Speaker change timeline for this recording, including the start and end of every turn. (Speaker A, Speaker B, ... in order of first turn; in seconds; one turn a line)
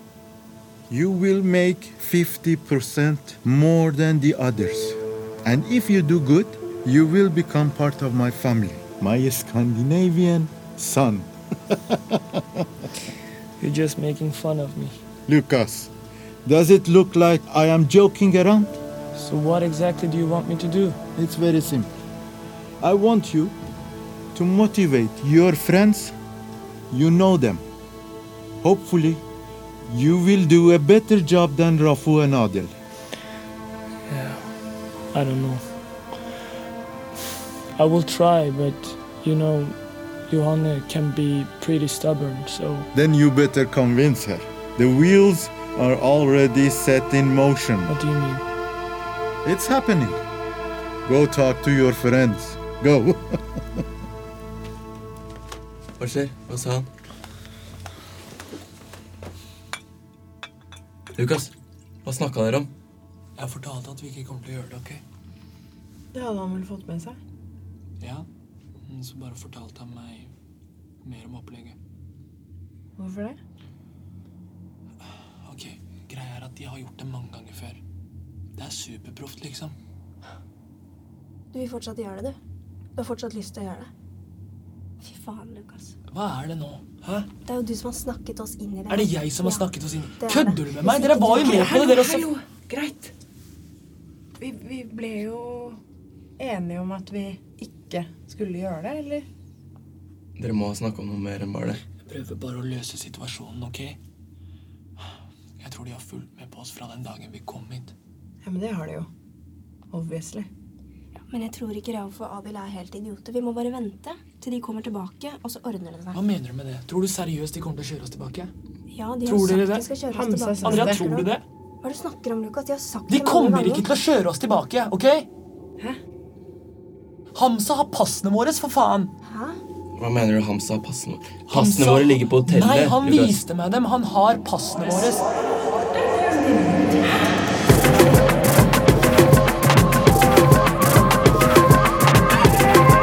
Speaker A: 0.9-12.7
Speaker B: 13.6-15.0
Speaker A: 15.3-15.9
Speaker A: 16.4-18.8
Speaker B: 19.1-21.0
Speaker A: 21.1-21.9
Speaker A: 22.8-23.6
Speaker A: 24.3-26.1
Speaker A: 26.9-27.6
Speaker A: 28.6-29.2
Speaker A: 29.8-32.7
Speaker B: 34.1-34.5
Speaker B: 35.1-35.7
Speaker B: 37.8-42.9
Speaker A: 42.9-48.0
Speaker B: 47.9-48.4
Speaker A: 49.4-50.2
Speaker A: 51.0-53.8
Speaker C: 56.0-56.9
Speaker C: 61.1-61.5
Speaker C: 62.0-62.7
Speaker B: 63.4-65.0
Speaker D: 66.1-67.2
Speaker B: 68.0-68.3
Speaker B: 68.8-70.3
Speaker B: 71.0-71.8
Speaker D: 73.0-73.4
Speaker B: 75.4-77.8
Speaker B: 78.5-79.7
Speaker E: 81.5-82.4
Speaker E: 83.0-83.9
Speaker E: 85.0-86.0
Speaker B: 86.1-87.3
Speaker E: 87.4-92.0
Speaker B: 88.9-92.3
Speaker D: 91.3-93.1
Speaker D: 94.4-95.8
Speaker D: 96.4-99.2
Speaker C: 100.3-101.8
Speaker B: 102.0-104.0
Speaker B: 105.6-107.9
Speaker D: 108.4-109.1
Speaker D: 109.9-110.5
Speaker E: 111.3-116.2
Speaker B: 116.1-118.5
Speaker E: 118.9-123.9
Speaker B: 119.2-119.9
Speaker D: 120.1-121.1
Speaker B: 120.6-121.4
Speaker B: 123.1-125.3
Speaker B: 127.3-129.1
Speaker E: 129.2-129.6
Speaker C: 130.0-133.4
Speaker B: 131.5-135.3
Speaker D: 135.3-137.3